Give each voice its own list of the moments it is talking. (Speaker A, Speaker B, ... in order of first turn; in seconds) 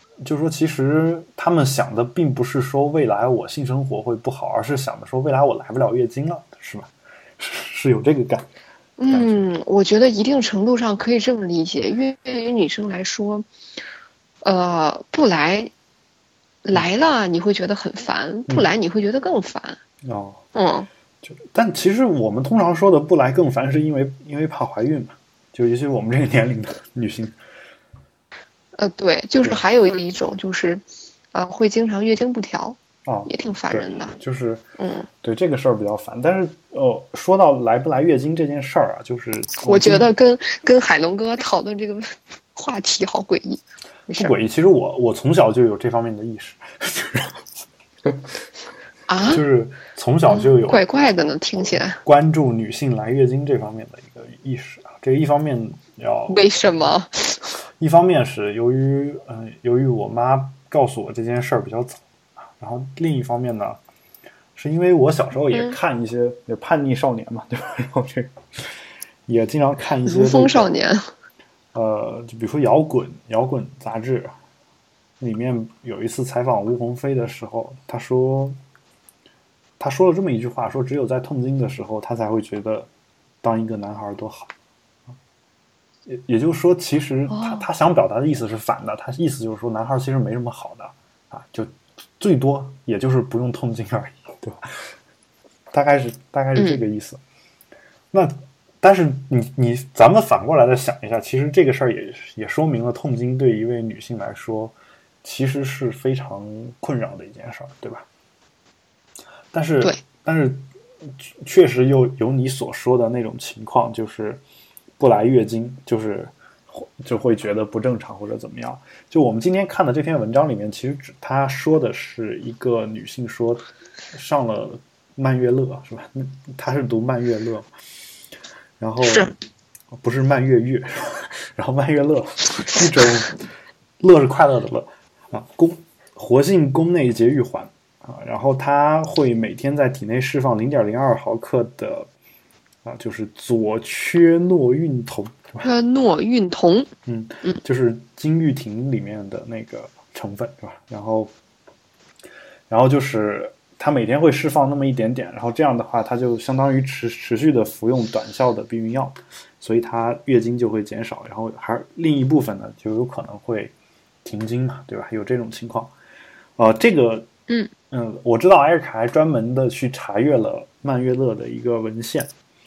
Speaker A: 0.2-8.5, 9.1-9.5, 20.0-20.4, 21.2-27.4, 33.1-34.6, 35.2-40.1, 44.1-47.4, 49.2-51.1, 51.7-56.9, 57.8-62.0, 62.6-63.8, 64.6-68.4, 69.3-70.7, 71.7-74.3, 75.2-78.6, 79.8-82.9, 83.4-84.5, 86.1-94.7, 95.7-97.2, 98.1-108.1, 109.5-110.7, 111.2-114.4, 115.0-127.7, 128.8-129.3, 129.9-133.4, 134.0-142.1, 142.8-145.7, 147.1-151.3, 152.7-163.7, 164.2-165.9, 166.6-167.3, 167.9-172.3
Speaker B: 9.0-13.5, 14.4-15.7, 16.6-19.8, 20.6-20.9, 28.8-30.8, 31.3-34.1, 34.8-35.1, 39.6-44.3, 49.1-49.4, 50.3-52.0, 56.3-57.5, 70.1-71.0, 87.3-87.7, 129.0-129.3, 145.6-146.9